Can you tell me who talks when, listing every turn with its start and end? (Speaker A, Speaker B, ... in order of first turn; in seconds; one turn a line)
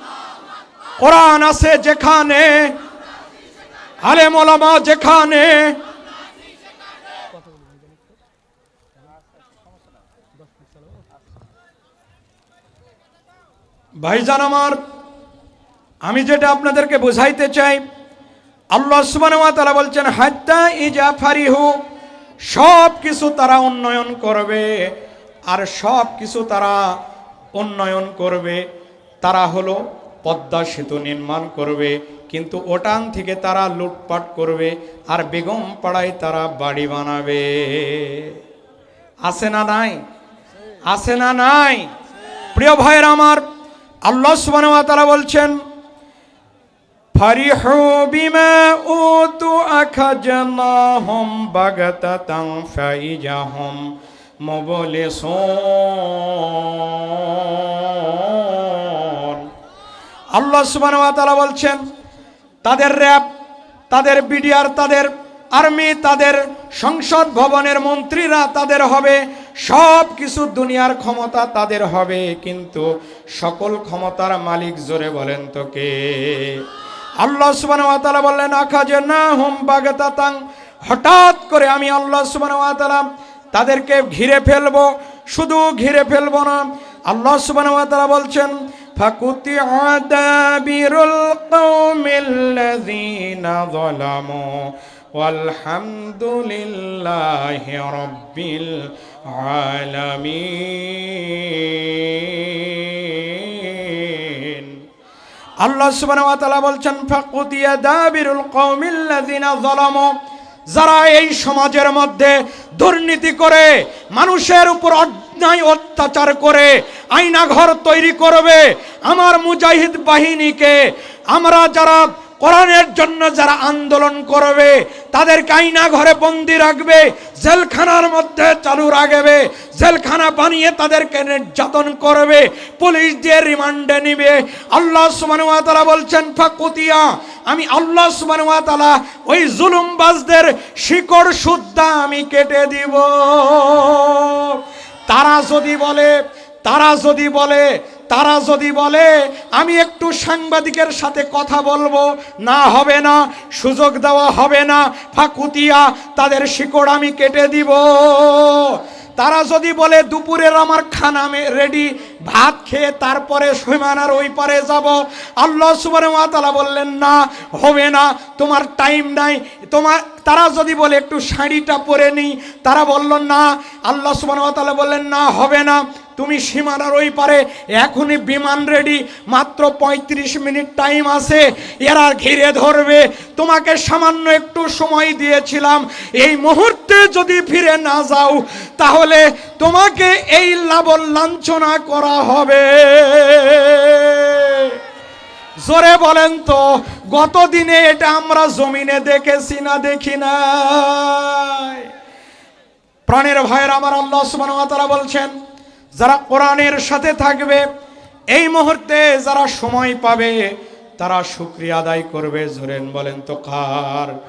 Speaker A: 1.0-2.8
Speaker A: 4.0-5.8
Speaker A: 14.0-14.8
Speaker A: 16.1-17.8
Speaker A: 18.7-21.8
Speaker A: 22.5-24.9
Speaker A: 25.5-26.9
Speaker A: 27.6-28.6
Speaker A: 29.2-38.4
Speaker A: 39.2-40.0
Speaker A: 40.9-41.9
Speaker A: 42.5-43.4
Speaker A: 44.1-45.6
Speaker A: 47.1-59.5
Speaker A: 60.4-61.8
Speaker A: 62.6-63.3
Speaker A: 63.9-76.7
Speaker A: 77.2-104.8
Speaker A: 105.6-110.1
Speaker A: 110.7-194.8
Speaker A: 195.6-201.9
Speaker A: 203.1-205.3
Speaker A: 206.0-207.6
Speaker A: 208.3-214.1